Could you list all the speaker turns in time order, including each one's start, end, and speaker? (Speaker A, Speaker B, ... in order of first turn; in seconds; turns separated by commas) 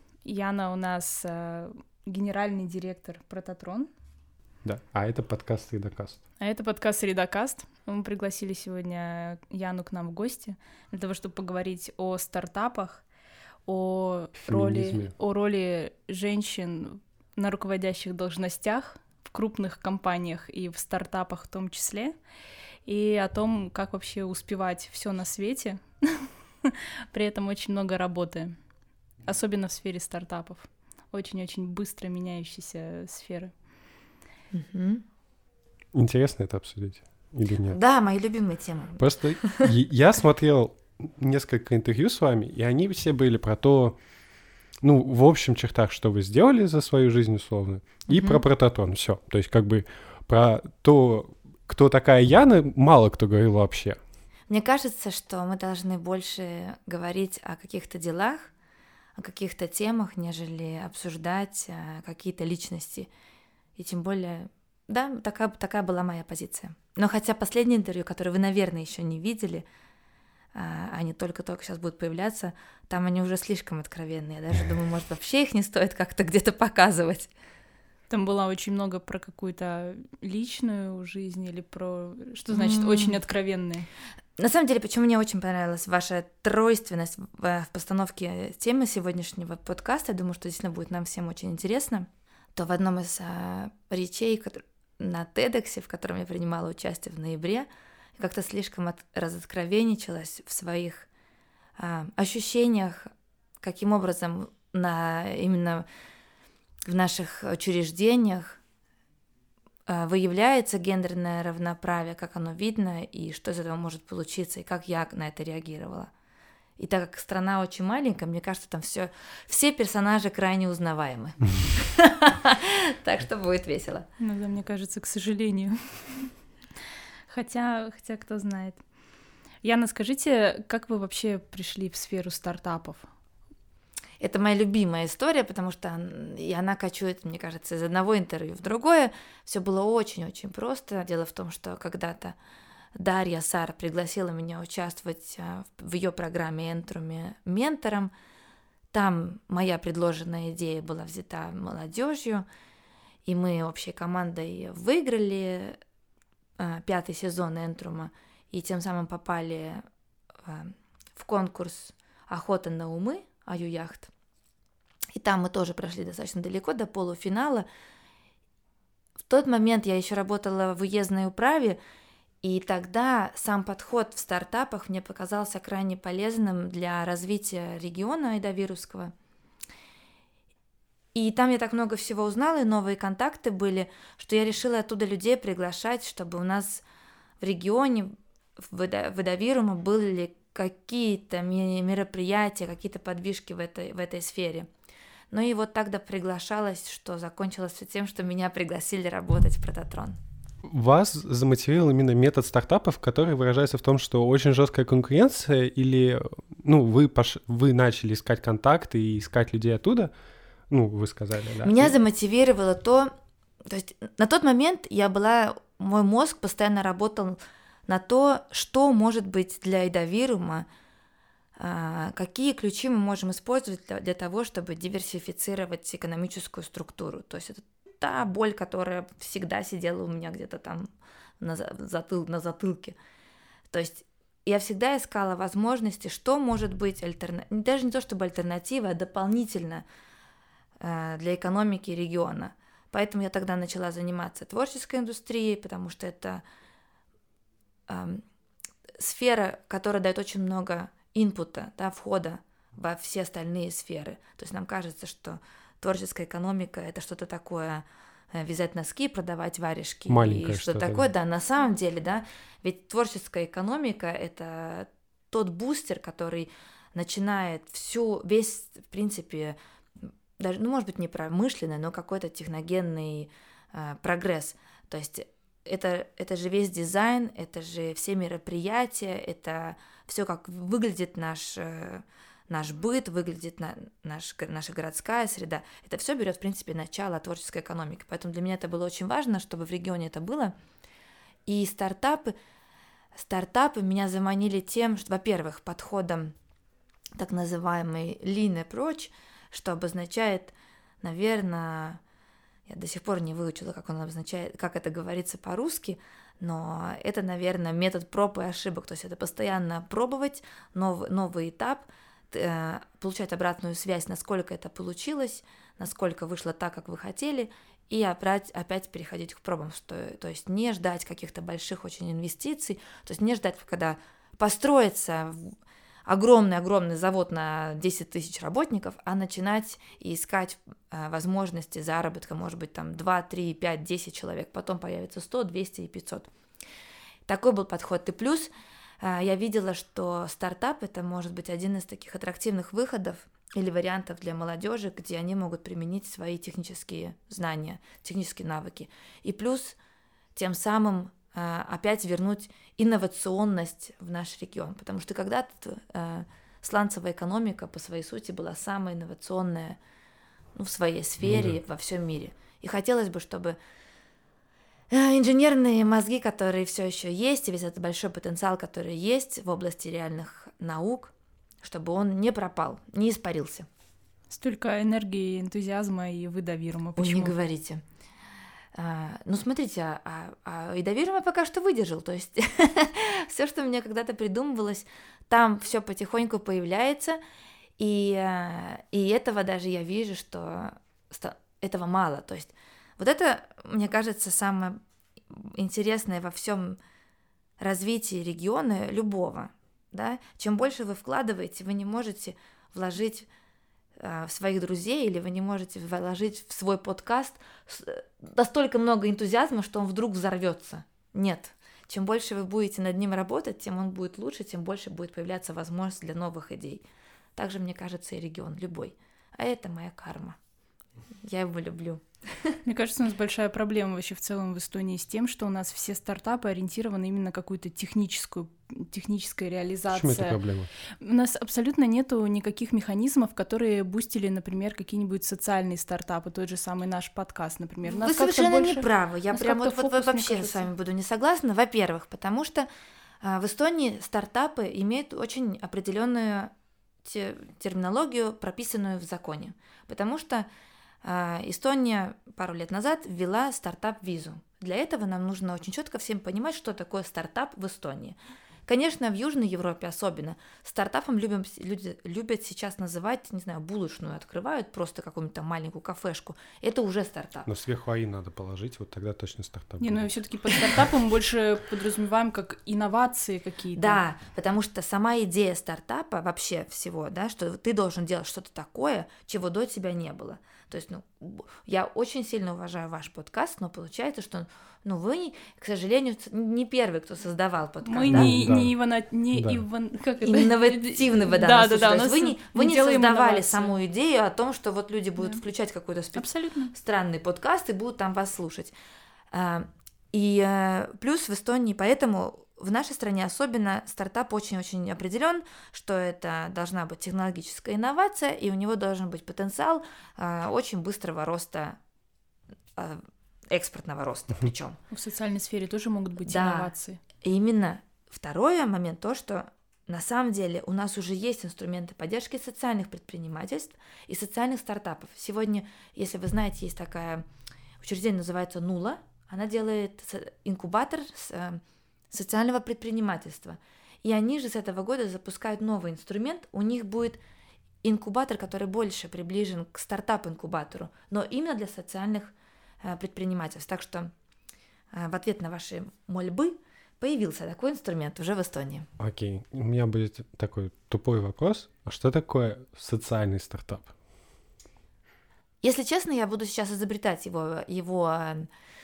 Speaker A: 0.2-3.9, Speaker B: 4.6-6.2, Speaker A: 6.4-13.0, Speaker A: 13.7-22.2, Speaker B: 14.4-15.1, Speaker A: 22.9-28.6, Speaker A: 29.2-33.5, Speaker C: 34.5-35.0, Speaker B: 35.9-37.8, Speaker C: 37.7-39.7, Speaker B: 39.0-44.0, Speaker B: 44.8-54.0, Speaker C: 48.1-48.4, Speaker C: 54.5-58.5, Speaker C: 59.1-63.1, Speaker C: 63.8-69.7, Speaker C: 70.5-77.3, Speaker A: 78.1-83.9, Speaker C: 82.5-83.2, Speaker C: 84.4-101.1, Speaker C: 101.8-105.8, Speaker C: 106.8-108.6, Speaker C: 109.9-116.1, Speaker C: 116.8-124.1, Speaker A: 124.2-126.3, Speaker A: 127.3-128.8, Speaker A: 129.6-133.1, Speaker C: 134.2-142.3, Speaker C: 142.9-148.1, Speaker C: 148.9-152.4, Speaker C: 153.2-155.8, Speaker C: 156.6-159.8, Speaker C: 160.4-164.1, Speaker C: 165.1-167.7, Speaker C: 169.3-171.8, Speaker C: 172.4-179.1, Speaker C: 181.1-186.8, Speaker C: 187.4-194.7, Speaker C: 195.3-200.2, Speaker B: 200.6-210.1, Speaker B: 210.7-211.9, Speaker C: 211.6-213.1, Speaker C: 213.6-220.7, Speaker C: 221.6-230.9, Speaker C: 231.4-232.9, Speaker C: 233.7-239.8, Speaker C: 240.8-246.4, Speaker C: 247.9-248.2, Speaker C: 249.0-269.6, Speaker B: 260.1-261.1, Speaker C: 270.4-290.5, Speaker C: 291.4-292.3, Speaker C: 293.1-296.3, Speaker C: 297.1-302.0, Speaker C: 302.7-325.5, Speaker C: 326.1-336.3, Speaker C: 337.2-338.5, Speaker C: 339.0-349.8, Speaker C: 350.3-359.8, Speaker C: 360.5-363.6, Speaker B: 361.2-361.6, Speaker C: 364.9-373.7, Speaker A: 374.3-377.3, Speaker C: 376.9-377.8, Speaker C: 378.7-387.2, Speaker C: 387.8-396.8, Speaker C: 397.6-403.3, Speaker C: 404.0-416.8, Speaker C: 417.4-420.4, Speaker C: 421.2-422.6, Speaker A: 422.6-430.4, Speaker B: 429.9-430.7, Speaker A: 431.0-440.7, Speaker C: 437.9-442.7, Speaker C: 443.2-446.5, Speaker C: 447.0-450.5, Speaker C: 451.0-467.5, Speaker B: 467.5-470.8, Speaker A: 469.8-474.0, Speaker C: 473.7-488.4, Speaker A: 487.8-493.7, Speaker B: 488.1-488.7, Speaker B: 489.3-489.6, Speaker C: 490.2-498.7, Speaker A: 496.1-496.7, Speaker C: 499.3-511.8, Speaker C: 512.8-514.8, Speaker A: 514.9-517.0, Speaker C: 516.2-516.7, Speaker C: 517.2-527.2, Speaker C: 527.8-537.2, Speaker C: 537.8-544.1, Speaker C: 544.9-548.9, Speaker B: 549.0-553.9, Speaker C: 555.6-558.5